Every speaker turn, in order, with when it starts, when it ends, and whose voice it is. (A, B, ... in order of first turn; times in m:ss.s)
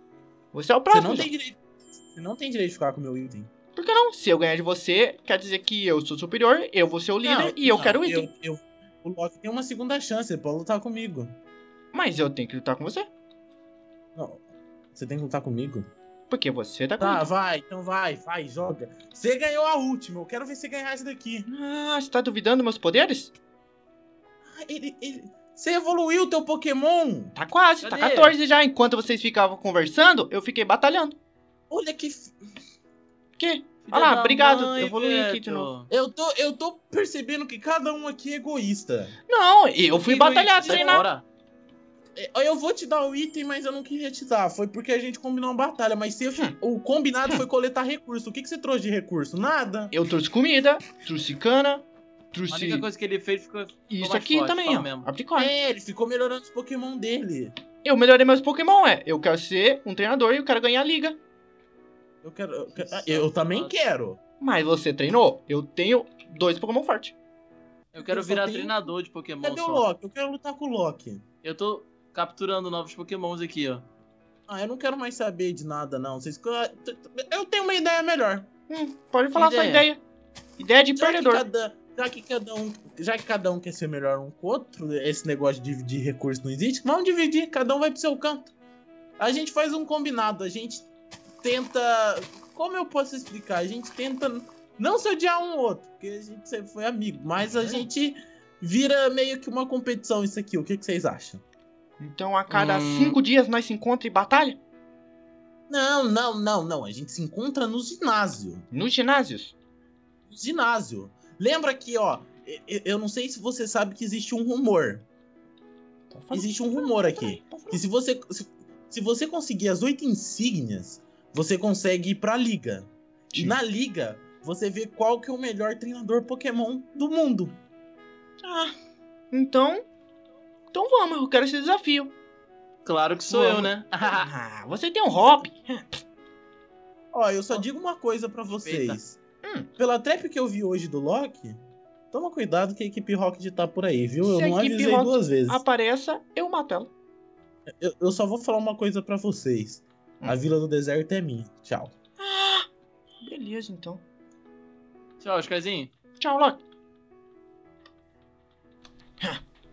0:00.5-0:01.3 A
0:00.9-0:03.5 B
0:03.8-0:08.3 A
0:07.2-0:11.3 B
0:11.9-0:13.1 A
0:14.1-0:14.4 B
0:14.9-0:15.9 B
0:16.3-0:17.2 A
0:17.0-0:21.5 B
0:21.5-0:23.3 A
0:24.5-0:27.3 B
0:27.3-0:31.2 A
0:27.8-0:28.4 C
0:31.7-0:32.4 B
0:33.4-0:35.7 A
0:33.8-0:35.9 C
0:35.9-0:39.2 B
0:39.3-0:41.1 A
0:39.9-0:41.2 C
0:40.6-0:41.0 B
0:42.2-0:49.9 B
0:49.9-0:52.9 A
0:52.5-0:55.1 C
0:53.9-0:55.5 A
0:55.4-0:57.5 B
0:57.8-1:01.2 A
1:02.2-1:04.2 B
1:02.8-1:03.7 C
1:04.4-1:07.2 A
1:07.9-1:09.8 C
1:08.0-1:08.7 B
1:09.4-1:11.2 B
1:11.4-1:13.8 C
1:14.5-1:18.5 B
1:18.7-1:20.0 A
1:19.3-1:19.9 C
1:20.6-1:21.4 A
1:21.0-1:28.5 B
1:29.2-1:30.9 B
1:31.4-1:41.4 B
1:37.4-1:37.9 A
1:42.0-1:44.6 A
1:42.5-1:43.2 C
1:45.7-1:48.7 B
1:48.7-1:49.6 A
1:50.3-1:55.0 B
1:56.1-1:57.8 A
1:56.3-2:07.6 B
2:08.4-2:08.7 A
2:09.3-2:09.8 A
2:10.7-2:12.1 A
2:12.8-2:14.3 C
2:13.3-2:16.0 A
2:17.1-2:19.2 B
2:18.6-2:19.0 C
2:19.4-2:19.7 A
2:19.8-2:21.6 B
2:22.1-2:25.6 B
2:24.2-2:26.9 A
2:27.8-2:32.0 B
2:32.2-2:32.7 A
2:33.2-2:34.0 A
2:35.2-2:35.9 C
2:36.2-2:36.6 A